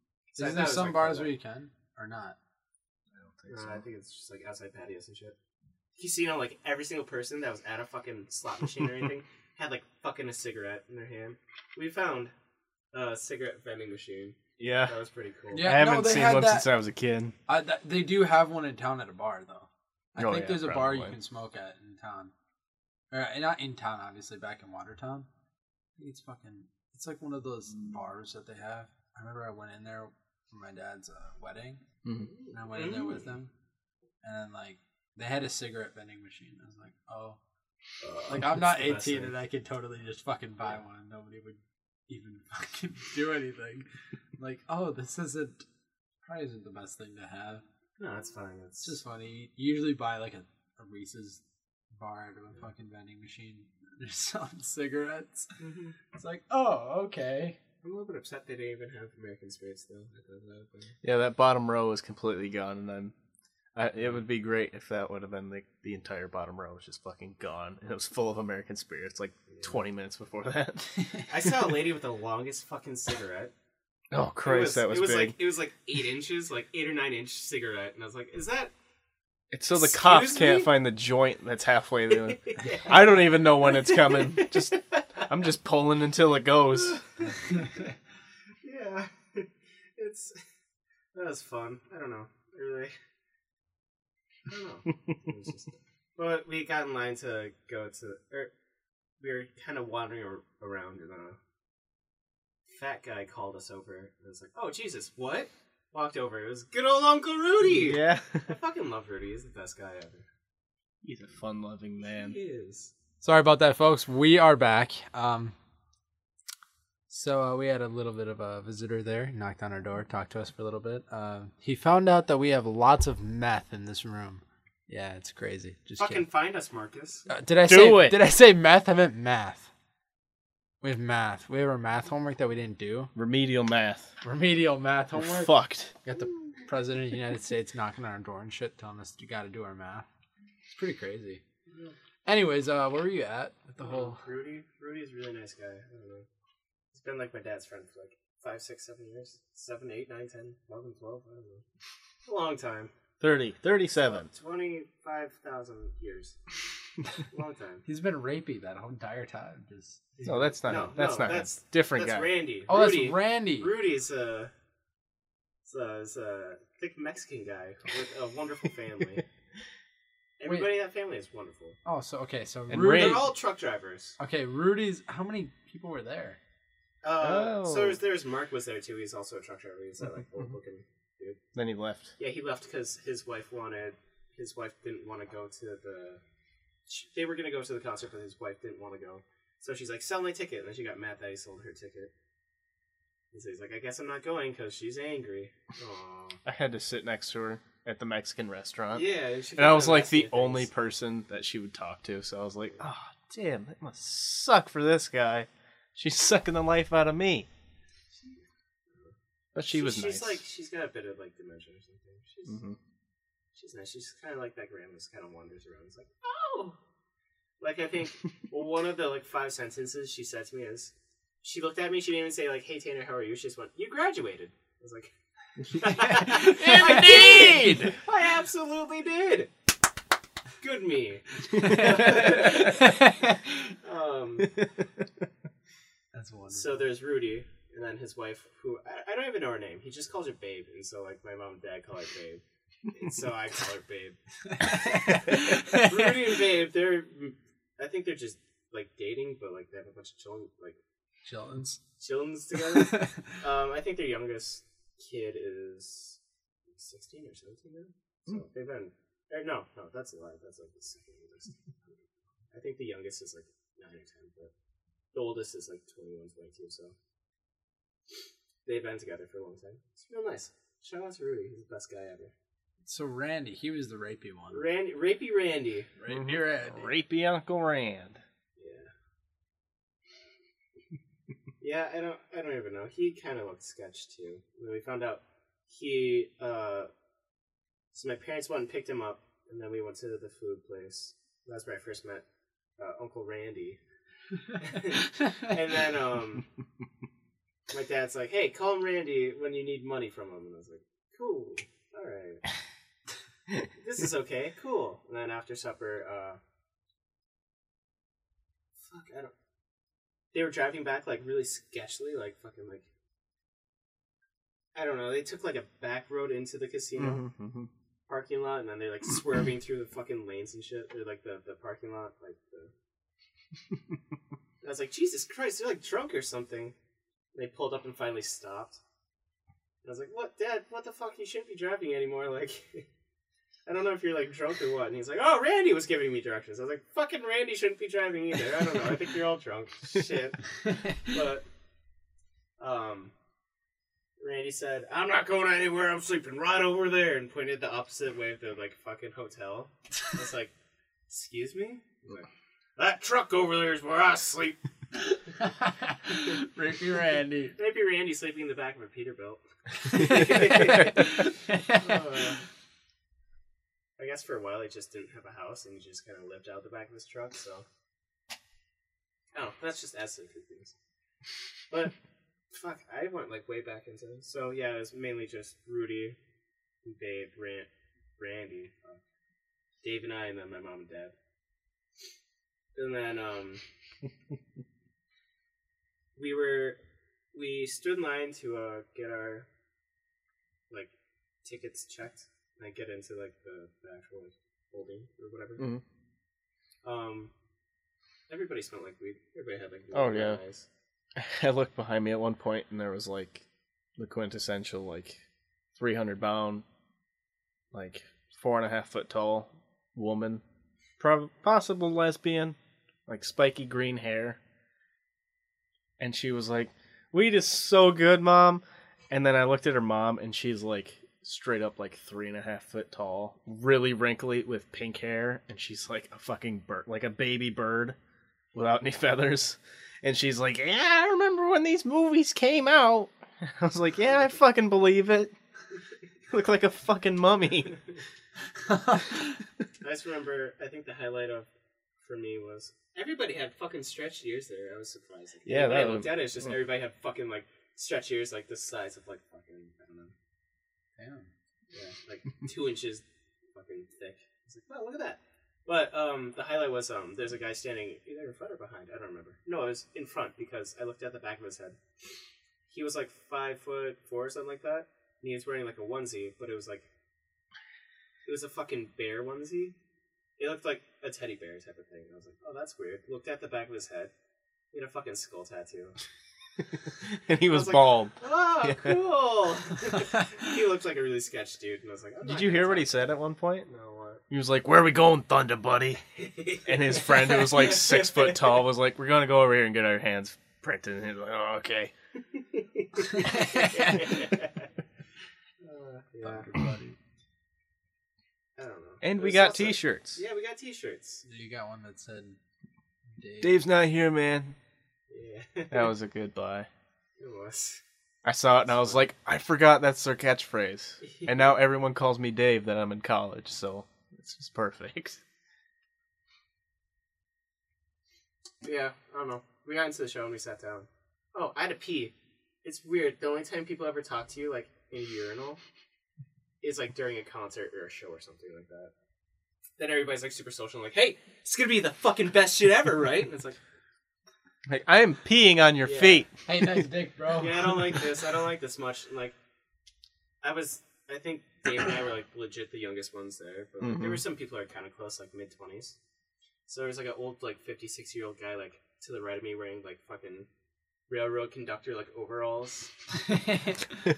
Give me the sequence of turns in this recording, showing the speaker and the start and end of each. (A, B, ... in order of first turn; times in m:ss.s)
0:00.3-0:01.3 A
0:00.4-0:02.4 B
0:03.1-0:03.8 C
0:03.5-0:05.4 A
0:06.0-0:12.3 A
0:12.9-0:15.7 A
0:14.6-0:14.9 C
0:15.5-0:16.7 B
0:15.6-0:17.3 C
0:17.5-0:22.3 B
0:20.2-0:21.2 C
0:23.1-0:25.3 B
0:26.0-0:31.8 B
0:32.0-0:32.3 C
0:32.2-0:33.3 A
0:32.5-0:33.5 B
0:34.2-0:37.4 B
0:38.0-0:39.3 A
0:38.2-0:43.8 B
0:44.4-0:45.6 B
0:46.2-0:47.6 B
0:48.0-0:49.0 A
0:48.8-0:51.4 B
0:51.9-0:55.6 B
0:55.6-0:56.0 A
0:56.1-0:57.6 B
0:57.8-1:01.0 A
1:01.0-1:03.1 C
1:03.7-1:11.1 C
1:09.5-1:09.7 A
1:11.3-1:13.5 A
1:14.1-1:15.4 C
1:14.4-1:18.7 A
1:19.5-1:27.0 C
1:19.7-1:20.7 A
1:22.2-1:25.3 A
1:28.6-1:30.4 A
1:31.1-1:32.9 A
1:34.5-1:38.5 A
1:39.2-1:41.4 A
1:42.7-1:50.3 A
1:47.6-1:48.5 C
1:51.0-1:52.4 C
1:52.0-1:52.9 A
1:53.2-1:55.5 B
1:57.1-2:06.2 B
2:06.0-2:07.3 A
2:07.3-2:09.7 B
2:07.6-2:08.2 C
2:10.8-2:13.1 B
2:13.1-2:14.1 C
2:14.2-2:15.5 B
2:15.2-2:15.9 C
2:16.0-2:20.0 B
2:20.8-2:21.4 B
2:21.7-2:21.9 A
2:22.2-2:24.2 B
2:23.8-2:26.3 A
2:26.9-2:31.6 A
2:32.2-2:32.9 A
2:33.2-2:34.3 C
2:33.9-2:36.4 A
2:37.3-2:37.8 A
2:37.8-2:40.6 B
2:40.2-2:42.3 C
2:40.6-2:44.5 A
2:42.7-2:43.7 B
2:45.6-2:49.2 A
2:50.4-2:51.8 A
2:51.8-2:53.3 B
2:52.7-2:53.3 C
2:52.8-2:54.2 A
2:54.2-2:56.4 B
2:57.0-3:01.4 A
2:57.2-2:58.0 C
3:01.5-3:02.1 C
3:02.2-3:06.2 A
3:06.9-3:12.1 A
3:13.3-3:16.4 A
3:16.4-3:27.5 C
3:18.9-3:20.7 A
3:28.2-3:29.1 A
3:29.5-3:30.4 C
3:29.7-3:32.6 A
3:32.5-3:32.8 C
3:33.5-3:36.8 A
3:37.6-3:49.5 A
3:46.1-3:48.0 C
3:50.6-3:53.0 A
3:51.6-3:52.2 B
3:51.7-3:52.2 C
3:52.8-3:53.1 B
3:53.8-3:54.6 A
3:56.1-3:56.9 B
3:56.5-4:10.8 A
4:04.6-4:06.0 B
4:11.2-4:11.8 B
4:12.0-4:24.5 A
4:12.8-4:13.2 B
4:25.1-4:26.9 A
4:28.6-4:32.3 A
4:32.8-4:34.6 B
4:34.5-4:35.9 A
4:36.0-4:36.9 B
4:36.1-4:38.2 C
4:38.6-4:38.9 A
4:41.6-4:46.9 A
4:47.9-4:52.2 A
4:52.8-4:53.8 A
4:54.6-4:56.4 A
4:57.7-5:02.4 A
5:03.8-5:06.4 A
5:08.8-5:09.3 A
5:10.3-5:12.8 A
5:14.7-5:17.2 A
5:17.0-5:17.7 C
5:18.1-5:22.7 A
5:24.6-5:26.7 A
5:27.3-5:28.8 A
5:29.8-5:32.8 A
5:33.6-5:41.4 A
5:42.6-5:43.1 A
5:44.2-5:50.5 A
5:51.1-5:54.6 A
5:55.4-5:57.5 B
5:57.6-6:02.4 A
6:00.1-6:02.0 B
6:04.0-6:07.6 A
6:09.3-6:10.7 A
6:11.7-6:11.9 A
6:12.5-6:16.2 A
6:16.8-6:19.0 A
6:19.8-6:21.1 A
6:22.8-6:23.6 A
6:26.2-6:26.8 A
6:27.3-6:29.5 A
6:31.4-6:35.6 A
6:35.6-6:35.8 C
6:36.8-6:37.3 A
6:38.3-6:40.7 A
6:39.9-6:40.4 C
6:41.1-6:43.4 C
6:44.0-6:45.2 C
6:45.8-6:46.6 C
6:47.7-6:50.4 C
6:51.0-6:54.4 C
6:56.0-7:08.0 C
7:08.5-7:15.3 C
7:16.3-7:17.8 C
7:18.7-7:19.2 B
7:19.8-7:21.5 A
7:22.0-7:30.1 A
7:25.4-7:26.1 C
7:31.0-7:31.3 B
7:31.7-7:41.8 A
7:42.7-7:46.9 A
7:48.2-7:49.7 A
7:50.4-7:54.1 A
7:54.7-7:56.0 A
7:57.0-7:59.0 C
7:57.4-8:03.1 A
8:02.2-8:03.7 C
8:03.6-8:04.2 A
8:04.3-8:06.0 C
8:06.2-8:08.5 A
8:06.6-8:11.9 C
8:12.4-8:14.6 A
8:13.3-8:13.7 B
8:15.6-8:16.5 A
8:16.2-8:17.0 B
8:18.6-8:21.2 A
8:19.0-8:20.2 C
8:21.2-8:22.4 B
8:23.1-8:23.6 B
8:23.4-8:24.6 C
8:25.1-8:25.9 A
8:25.7-8:26.7 C
8:27.2-8:27.8 A
8:28.2-8:35.2 C
8:28.7-8:29.0 A
8:31.1-8:31.4 A
8:38.6-8:45.6 A
8:46.6-8:48.9 A
8:49.8-8:53.6 A
8:54.6-8:56.3 C
8:55.8-8:56.2 A
8:56.4-8:57.9 B
8:57.4-8:59.3 A
9:00.4-9:06.0 A
9:03.8-9:04.2 C
9:06.7-9:10.5 A
9:11.1-9:12.9 A
9:13.4-9:13.8 B